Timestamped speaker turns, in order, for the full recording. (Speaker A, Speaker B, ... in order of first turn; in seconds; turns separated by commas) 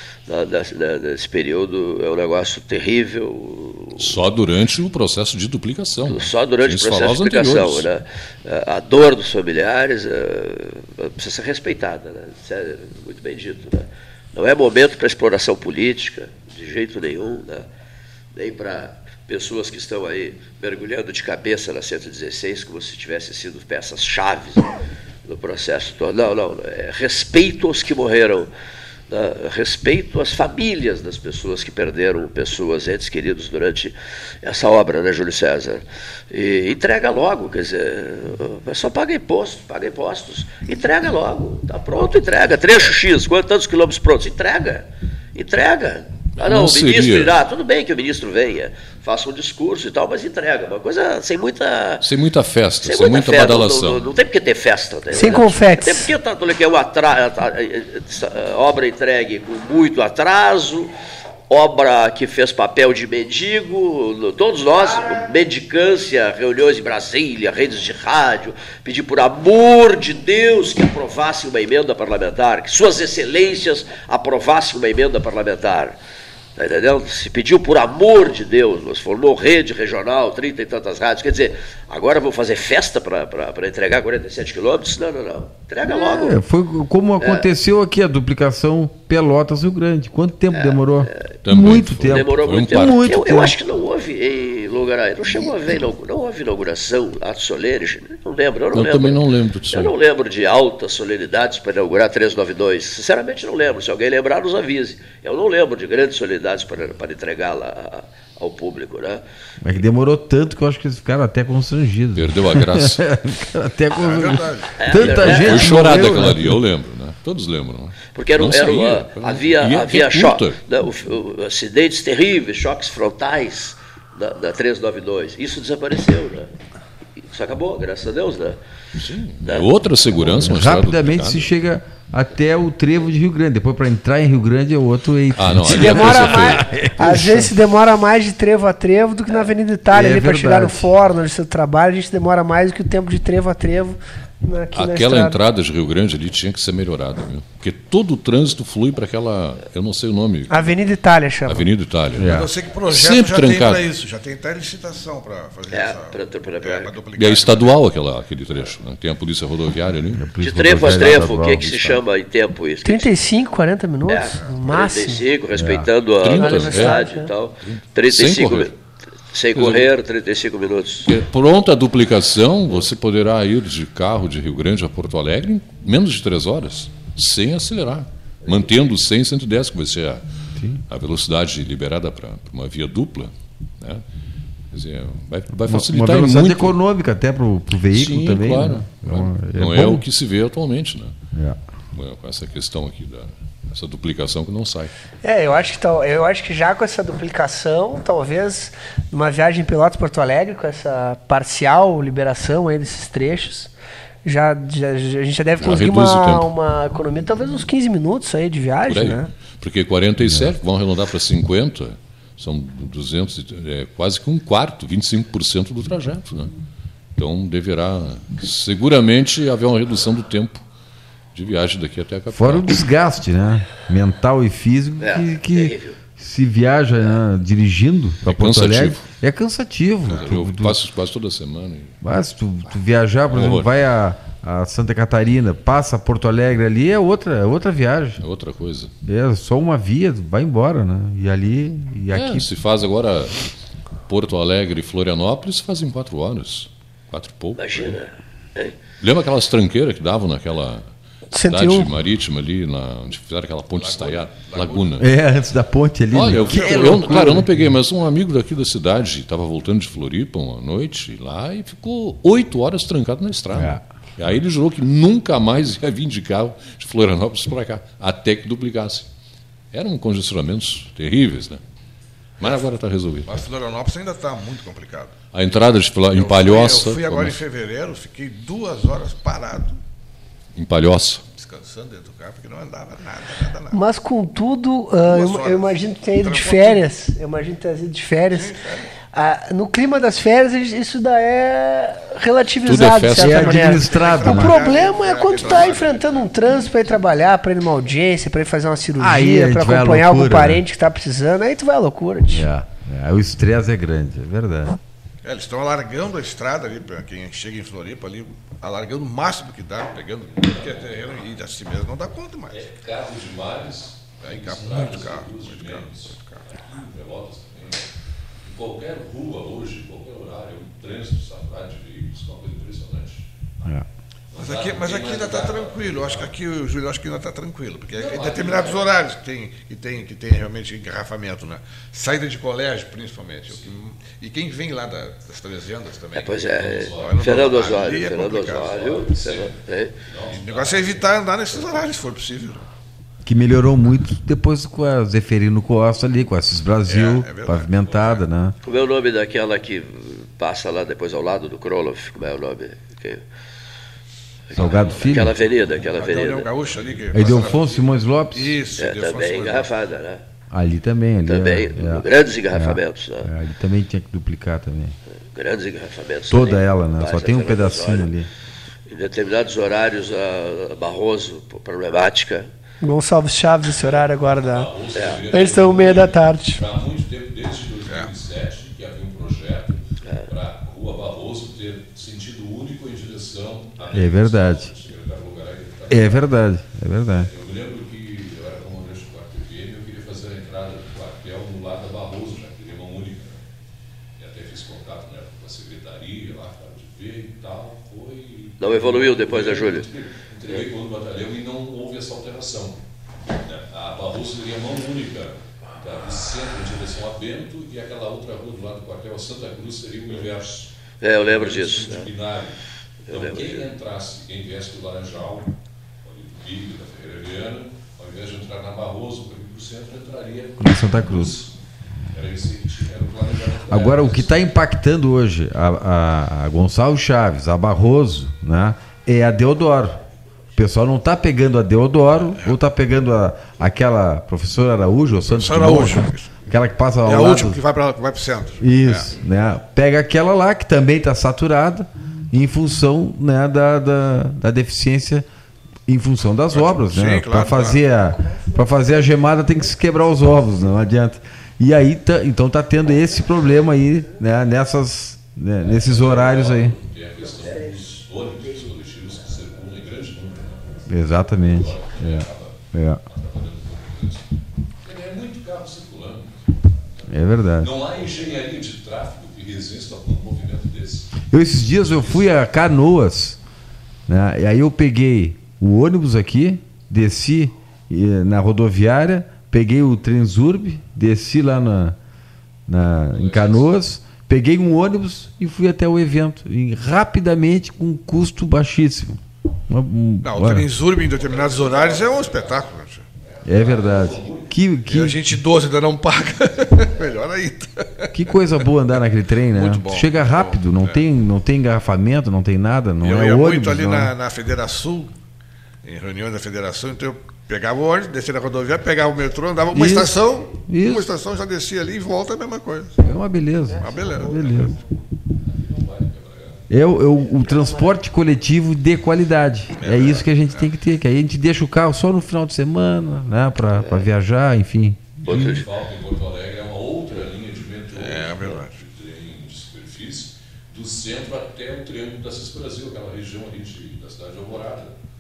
Speaker A: 0.3-4.1, Speaker B: 4.0-7.9, Speaker A: 6.1-17.7, Speaker A: 18.3-24.7, Speaker A: 25.2-28.5, Speaker A: 29.1-52.0, Speaker B: 46.4-47.3, Speaker B: 52.0-54.1, Speaker A: 52.8-60.9, Speaker C: 55.1-56.1, Speaker A: 61.5-76.0, Speaker A: 76.6-86.4, Speaker D: 85.9-93.5, Speaker A: 87.2-87.5, Speaker A: 90.5-91.3, Speaker B: 91.4-93.0, Speaker A: 92.1-109.2, Speaker B: 98.7-99.9, Speaker D: 109.6-116.6, Speaker B: 112.1-113.0, Speaker E: 114.0-115.3, Speaker A: 114.8-116.1, Speaker B: 115.1-120.6, Speaker A: 118.2-126.5, Speaker A: 127.2-128.6, Speaker B: 129.0-131.5, Speaker A: 129.4-129.7, Speaker D: 130.3-137.5, Speaker B: 135.3-136.9, Speaker C: 135.6-145.4, Speaker D: 139.9-140.9, Speaker B: 144.7-150.8, Speaker C: 150.5-151.7, Speaker B: 151.4-152.3, Speaker D: 152.1-152.5, Speaker E: 152.2-157.7, Speaker B: 152.9-153.8, Speaker A: 155.7-156.9, Speaker B: 157.1-160.2, Speaker D: 160.1-162.0, Speaker A: 160.4-163.1, Speaker C: 162.8-165.3, Speaker A: 164.1-168.7, Speaker D: 165.5-165.9, Speaker B: 166.2-167.0, Speaker C: 166.3-167.3, Speaker B: 167.6-168.7, Speaker A: 169.3-171.1, Speaker B: 169.5-169.9, Speaker B: 171.1-180.2, Speaker D: 180.6-180.8, Speaker B: 180.9-184.0, Speaker B: 184.7-186.8, Speaker D: 185.7-190.0, Speaker B: 187.9-191.1, Speaker B: 191.9-194.9, Speaker C: 195.2-203.7, Speaker C: 204.2-209.3, Speaker B: 205.6-206.5, Speaker B: 208.9-216.5, Speaker D: 210.2-210.5, Speaker B: 217.2-220.6, Speaker B: 221.3-222.7, Speaker D: 222.3-230.8, Speaker A: 225.0-226.0, Speaker B: 228.2-229.0, Speaker B: 230.1-232.0, Speaker D: 232.0-238.2, Speaker B: 233.3-233.7, Speaker B: 238.2-238.9, Speaker D: 239.1-242.5, Speaker B: 242.1-243.4, Speaker B: 244.1-248.0, Speaker A: 247.6-248.7, Speaker B: 249.0-255.1, Speaker C: 251.3-251.9, Speaker E: 253.7-255.0, Speaker D: 255.0-257.7, Speaker B: 256.1-269.1, Speaker E: 256.4-257.2, Speaker D: 263.5-263.8, Speaker B: 269.7-271.6, Speaker B: 272.4-273.4, Speaker E: 273.3-275.1, Speaker B: 275.3-277.4, Speaker E: 276.1-279.8, Speaker B: 280.5-281.2, Speaker E: 281.4-283.8, Speaker C: 283.7-288.5, Speaker E: 285.0-286.9, Speaker E: 288.3-288.9, Speaker C: 289.1-302.5, Speaker B: 292.6-293.8, Speaker D: 293.1-294.6, Speaker E: 293.8-296.8, Speaker D: 299.0-300.6, Speaker D: 302.3-304.8, Speaker E: 305.2-312.6, Speaker B: 310.4-311.1, Speaker B: 312.5-317.9, Speaker E: 314.2-316.4, Speaker B: 318.4-323.3, Speaker B: 324.3-326.3, Speaker E: 324.4-339.0, Speaker B: 327.9-328.9, Speaker A: 336.1-339.9, Speaker B: 336.6-341.8, Speaker E: 340.3-342.6, Speaker D: 343.2-348.6, Speaker E: 346.9-347.7, Speaker A: 348.6-353.2, Speaker A: 354.5-356.5, Speaker D: 354.5-355.4, Speaker B: 354.5-355.7, Speaker E: 355.8-359.7, Speaker D: 357.1-358.6, Speaker A: 358.8-360.2, Speaker D: 360.5-364.9, Speaker A: 361.2-363.3, Speaker A: 365.3-368.1, Speaker D: 366.3-368.3, Speaker A: 368.9-372.5, Speaker C: 372.8-374.7, Speaker B: 374.3-386.3, Speaker C: 375.2-376.6, Speaker D: 383.9-384.7, Speaker D: 385.9-387.3, Speaker B: 387.2-393.4, Speaker B: 394.2-402.8, Speaker A: 398.6-399.9, Speaker B: 403.4-410.7, Speaker A: 411.0-412.1, Speaker B: 411.2-421.5, Speaker A: 413.1-413.6, Speaker D: 420.6-421.4, Speaker B: 422.1-424.4, Speaker D: 423.7-430.0, Speaker D: 430.5-437.6, Speaker E: 435.3-436.4, Speaker E: 437.0-439.1, Speaker D: 438.6-445.2, Speaker D: 445.9-456.7, Speaker E: 446.5-447.8, Speaker B: 455.6-462.6, Speaker D: 460.9-463.0, Speaker B: 463.1-464.3, Speaker B: 464.8-471.1, Speaker D: 467.1-467.7, Speaker D: 471.3-473.4, Speaker B: 472.0-472.3, Speaker D: 474.1-482.0, Speaker D: 482.7-490.7, Speaker B: 483.1-483.7, Speaker E: 490.2-493.0, Speaker B: 491.2-492.6, Speaker B: 493.4-494.5, Speaker D: 493.4-495.4, Speaker E: 494.9-498.1, Speaker D: 498.1-504.1, Speaker E: 499.5-501.0, Speaker E: 503.0-505.1, Speaker E: 505.8-513.0, Speaker D: 509.7-511.1, Speaker D: 513.0-514.7, Speaker E: 513.8-514.7, Speaker B: 515.5-516.6, Speaker D: 516.7-525.6, Speaker E: 519.8-520.7, Speaker A: 523.8-524.1, Speaker B: 525.2-535.0, Speaker A: 525.2-525.6, Speaker E: 527.9-528.7